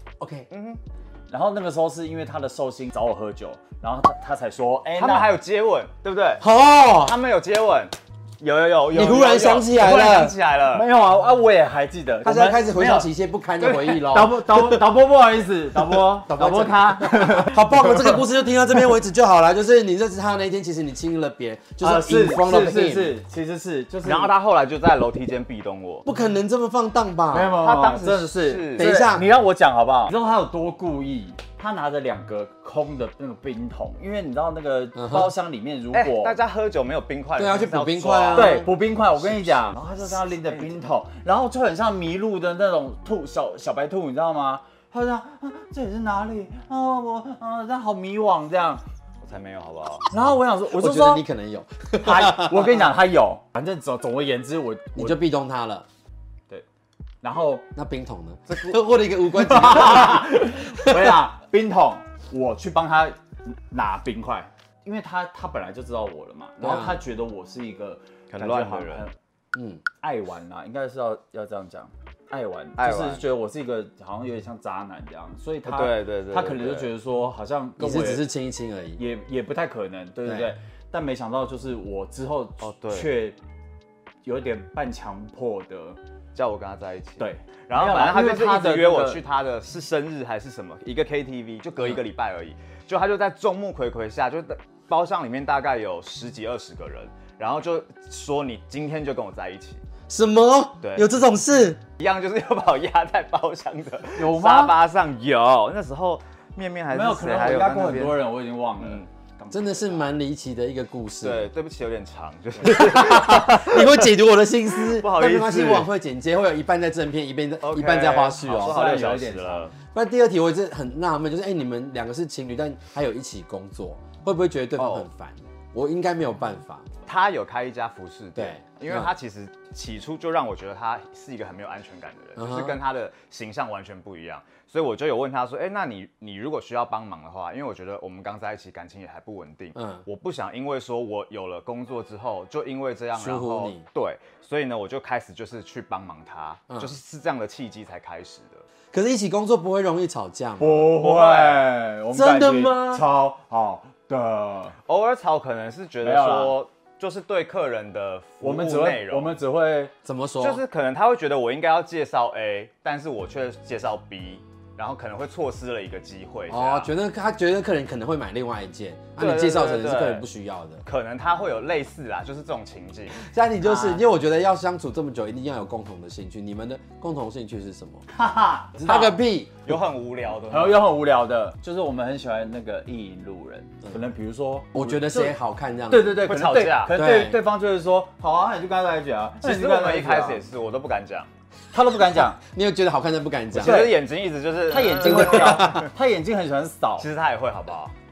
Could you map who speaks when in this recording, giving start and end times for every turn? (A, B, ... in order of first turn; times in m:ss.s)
0:00.2-0:00.5 A
0:00.5-0:00.8 B
0:01.3-0:05.4 C
0:05.0-0:06.4 B
0:06.4-0:07.2 A
0:07.0-0:10.9 B
0:08.9-0:10.3 A
0:10.7-0:13.1 C
0:12.2-0:14.8 A
0:13.6-0:18.2 C
0:15.9-0:23.2 A
0:21.8-0:24.3 C
0:24.0-0:26.0 B
0:26.0-0:27.6 A
0:27.3-0:36.4 C
0:27.6-0:28.9 B
0:28.8-0:29.3 A
0:35.0-0:35.3 A
0:35.9-0:38.7 B
0:37.4-0:38.7 A
0:38.3-0:48.8 C
0:39.4-0:39.6 B
0:49.2-0:50.1 B
0:50.1-0:51.2 C
0:50.7-0:52.6 A
0:52.0-0:55.2 C
0:54.9-0:55.9 A
0:57.2-0:57.6 C
0:57.7-1:01.0 A
0:59.3-1:09.1 C
1:06.6-1:07.0 A
1:08.3-1:09.1 B
1:09.5-1:09.8 A
1:10.0-1:18.3 C
1:12.8-1:13.2 B
1:15.6-1:16.9 B
1:17.8-1:19.0 A
1:19.0-1:23.4 C
1:20.2-1:20.5 A
1:22.6-1:23.1 B
1:24.2-1:26.0 C
1:26.3-1:39.8 B
1:27.2-1:29.2 C
1:40.1-1:41.8 A
1:40.8-1:41.1 B
1:42.0-1:48.2 B
1:44.1-1:44.8 C
1:46.9-1:50.1 C
1:48.8-1:49.1 B
1:49.5-1:51.5 A
1:51.2-1:53.7 B
1:52.6-1:58.8 A
1:54.9-1:55.9 B
1:57.6-1:59.7 B
1:58.5-1:59.7 C
1:59.9-2:06.8 A
2:04.8-2:05.1 B
2:07.0-2:28.6 B
2:08.4-2:09.1 A
2:12.4-2:12.8 A
2:19.8-2:20.0 A
2:23.1-2:23.8 A
2:28.9-2:31.0 A
2:30.6-2:34.8 C
2:31.0-2:31.6 B
2:32.1-2:33.0 A
2:34.8-2:39.3 B
2:36.0-2:36.5 C
2:38.4-2:39.9 C
2:40.0-2:40.6 A
2:40.4-2:46.9 B
2:46.5-2:50.8 A
2:49.2-2:50.2 B
2:50.8-2:53.2 B
2:53.1-2:58.0 A
2:53.6-2:54.0 C
2:58.1-2:59.2 C
2:58.8-2:59.6 A
2:59.6-3:00.8 B
3:00.5-3:05.3 C
3:04.7-3:06.2 A
3:05.9-3:10.4 C
3:06.2-3:07.0 B
3:06.9-3:07.4 A
3:09.4-3:11.3 B
3:11.7-3:12.4 C
3:12.4-3:13.9 A
3:13.6-3:15.9 B
3:13.6-3:14.0 C
3:14.6-3:17.1 C
3:15.0-3:15.8 A
3:17.0-3:17.9 B